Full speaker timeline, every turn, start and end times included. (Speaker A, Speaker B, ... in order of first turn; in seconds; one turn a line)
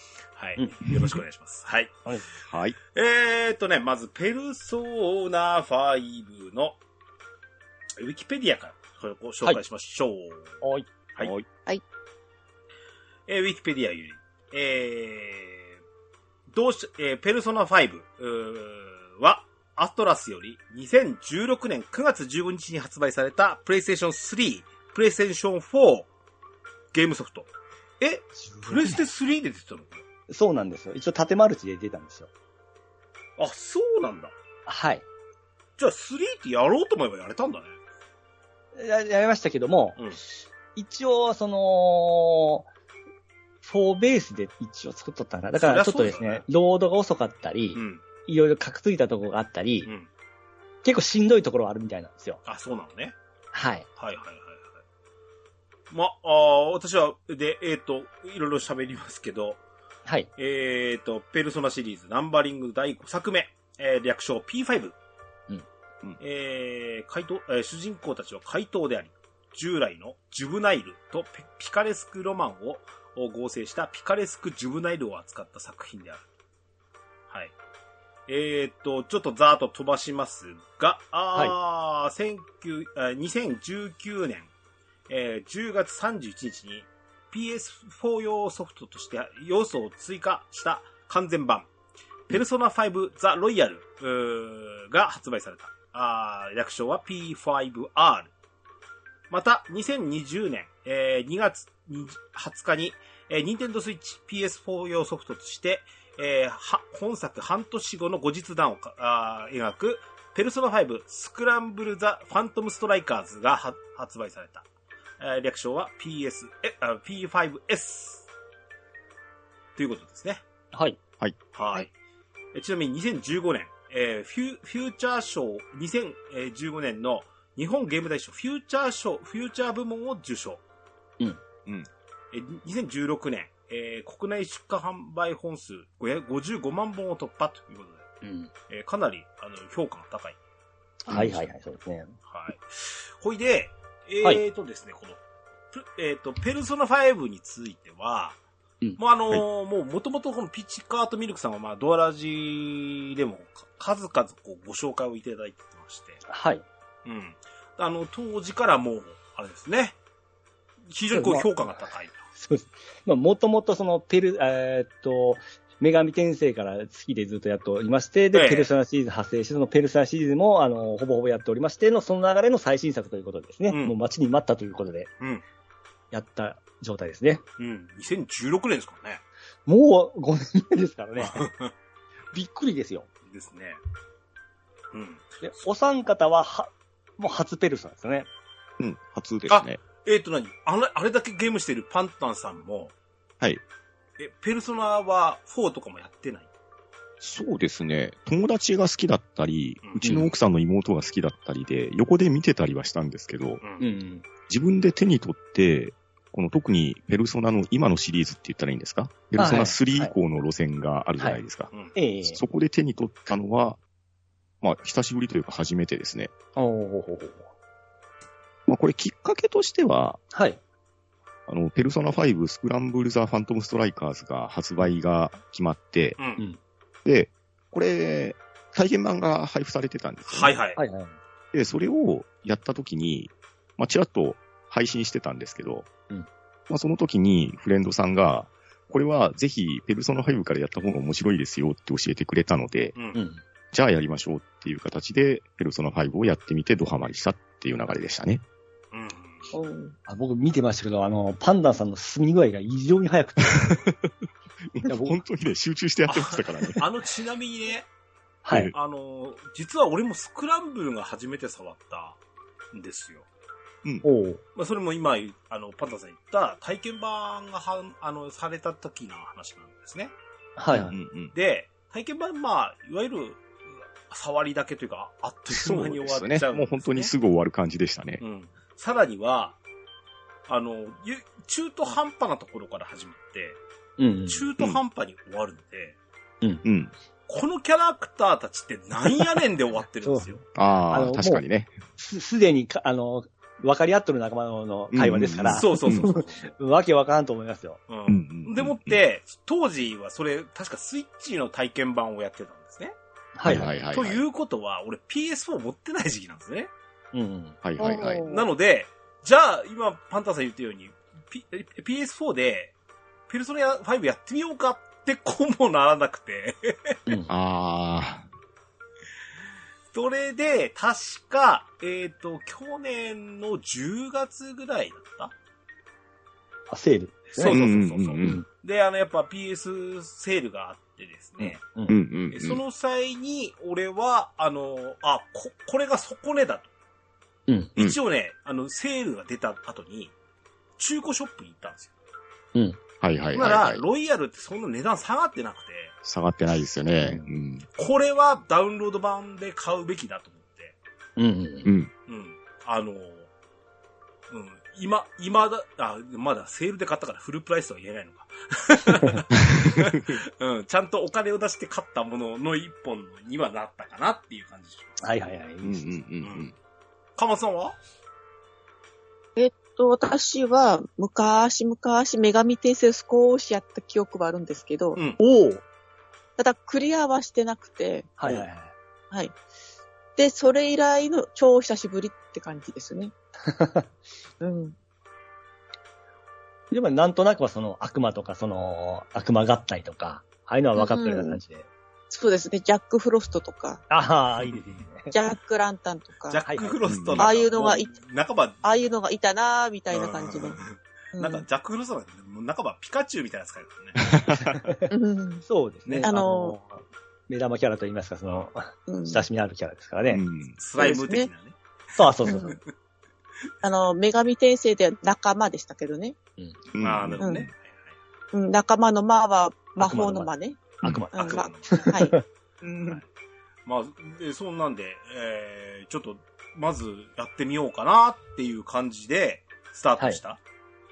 Speaker A: 0.3-1.9
Speaker B: 0.6-1.0
Speaker C: 2.5-2.8
Speaker A: 2.9-6.8
Speaker A: 8.0-10.6
Speaker B: 10.6-10.9
Speaker C: 11.2-11.5
Speaker A: 13.3-15.8
Speaker A: 16.5-26.1
Speaker A: 26.9-27.5
Speaker A: 28.0-30.0
Speaker B: 28.4-29.0
Speaker B: 30.3-32.3
Speaker A: 33.4-34.3
Speaker B: 34.7-35.0
Speaker A: 35.8-37.8
Speaker B: 38.8-40.1
Speaker B: 40.8-42.7
Speaker B: 43.6-49.9
Speaker A: 45.5-46.4
Speaker A: 47.7-48.0
Speaker B: 50.8-52.4
Speaker A: 52.5-53.2
Speaker B: 53.5-53.9
Speaker A: 54.0-54.8
Speaker A: 55.9-59.6
Speaker A: 60.4-65.0
Speaker A: 66.2-76.2
Speaker A: 78.3-84.5
Speaker A: 85.1-91.7
Speaker A: 92.3-98.3
Speaker A: 99.3-114.7
Speaker A: 115.2-118.2
Speaker A: 119.8-120.4
Speaker B: 120.7-121.0
Speaker A: 121.5-121.9
Speaker A: 122.5-130.6
Speaker A: 132.3-138.1
Speaker B: 138.2-138.5
Speaker A: 138.7-140.4
Speaker B: 141.1-142.1
Speaker C: 141.1-141.4
Speaker A: 142.3-145.2
Speaker A: 145.7-148.4
Speaker A: 149.0-156.2
Speaker B: 156.3-156.7
Speaker A: 157.1-160.0
Speaker A: 160.9-162.2
Speaker B: 161.1-161.5
Speaker B: 162.4-175.1
Speaker A: 168.3-168.7
Speaker A: 173.7-174.0
Speaker B: 176.1-177.4
Speaker A: 177.6-179.2
Speaker B: 179.7-181.5
Speaker A: 181.2-181.7
Speaker B: 182.3-183.1
Speaker A: 183.3-183.8
Speaker A: 184.9-185.4
Speaker B: 185.4-188.3
Speaker C: 188.8-189.8
Speaker A: 189.5-192.9
Speaker A: 194.2-196.5
Speaker C: 197.2-203.6
Speaker A: 199.8-200.3
Speaker B: 200.0-200.3
Speaker A: 203.6-203.9
Speaker B: 203.8-204.2
Speaker C: 204.5-211.7
Speaker B: 209.4-210.1
Speaker B: 211.9-212.4
Speaker C: 212.2-213.8
Speaker C: 214.6-216.3
Speaker B: 216.6-217.5
Speaker C: 218.7-220.2
Speaker B: 220.3-220.6
Speaker C: 221.5-226.2
Speaker A: 226.2-226.4
Speaker C: 227.1-230.6
Speaker A: 230.3-230.8
Speaker B: 230.8-231.2
Speaker C: 231.5-235.9
Speaker C: 236.7-243.0
Speaker A: 242.9-243.2
Speaker B: 243.1-243.4
Speaker C: 243.7-248.4
Speaker A: 248.9-249.5
Speaker D: 249.5-249.9
Speaker B: 250.1-253.8
Speaker C: 253.5-254.1
Speaker C: 254.7-256.9
Speaker B: 254.9-255.2
Speaker A: 256.1-257.9
Speaker B: 258.4-258.7
Speaker A: 258.7-262.2
Speaker A: 262.7-263.3
Speaker B: 264.0-264.4
Speaker A: 264.6-270.1
Speaker B: 270.6-270.9
Speaker C: 270.7-271.3
Speaker A: 271.3-277.1
Speaker C: 275.5-278.2
Speaker A: 278.2-279.6
Speaker A: 280.5-283.6
Speaker B: 284.0-284.5
Speaker A: 284.3-286.0
Speaker C: 286.6-286.9
Speaker A: 287.3-290.4
Speaker B: 290.1-291.4
Speaker C: 290.6-291.8
Speaker B: 292.0-297.8
Speaker C: 294.9-296.1
Speaker A: 295.5-296.5
Speaker A: 297.9-303.0
Speaker C: 298.1-299.0
Speaker B: 303.4-303.7
Speaker C: 303.4-304.2
Speaker A: 303.8-306.7
Speaker B: 307.1-307.6
Speaker C: 307.6-308.2
Speaker D: 307.8-308.5
Speaker A: 308.3-312.7
Speaker A: 313.3-317.0
Speaker C: 317.3-318.3
Speaker A: 319.9-325.3
Speaker B: 326.7-327.6
Speaker A: 327.3-331.6
Speaker C: 327.5-328.4
Speaker B: 331.4-332.0
Speaker C: 331.9-332.6
Speaker A: 332.3-336.7
Speaker B: 337.5-337.7
Speaker A: 337.8-340.1
Speaker A: 340.8-341.9
Speaker B: 342.6-342.8
Speaker C: 343.0-343.8
Speaker A: 343.3-345.9
Speaker C: 346.0-347.7
Speaker B: 347.0-347.3
Speaker A: 347.8-350.8
Speaker B: 351.2-351.7
Speaker C: 351.6-351.9
Speaker A: 352.1-353.3
Speaker A: 354.3-365.0
Speaker B: 365.0-365.9
Speaker C: 365.6-366.5
Speaker A: 366.2-366.5
Speaker A: 367.2-367.8
Speaker D: 369.4-375.0
Speaker B: 375.2-375.6
Speaker D: 376.4-378.1
Speaker B: 378.2-378.7
Speaker D: 380.2-383.1
Speaker B: 383.5-383.9
Speaker D: 384.4-384.8
Speaker B: 386.7-391.7
Speaker D: 390.8-391.4
Speaker D: 392.1-393.8
Speaker B: 393.9-395.1
Speaker D: 395.1-396.4
Speaker A: 396.3-398.6
Speaker B: 396.4-396.8
Speaker C: 396.9-397.3
Speaker D: 397.2-398.0
Speaker D: 398.6-401.4
Speaker A: 399.9-404.0
Speaker C: 404.0-404.6
Speaker B: 404.5-404.9
Speaker D: 404.9-405.4
Speaker B: 405.5-410.2
Speaker D: 406.0-406.6
Speaker D: 408.9-409.2
Speaker C: 410.1-410.6
Speaker A: 410.6-411.6
Speaker D: 410.8-411.3
Speaker B: 412.0-412.5
Speaker A: 412.2-412.6
Speaker D: 412.2-412.6
Speaker D: 413.6-416.2
Speaker C: 416.7-417.5
Speaker A: 416.8-418.0
Speaker D: 417.2-417.5
Speaker D: 418.3-420.6
Speaker B: 419.8-420.3
Speaker B: 420.8-422.2
Speaker D: 421.1-423.0
Speaker A: 421.2-421.9
Speaker A: 423.6-430.4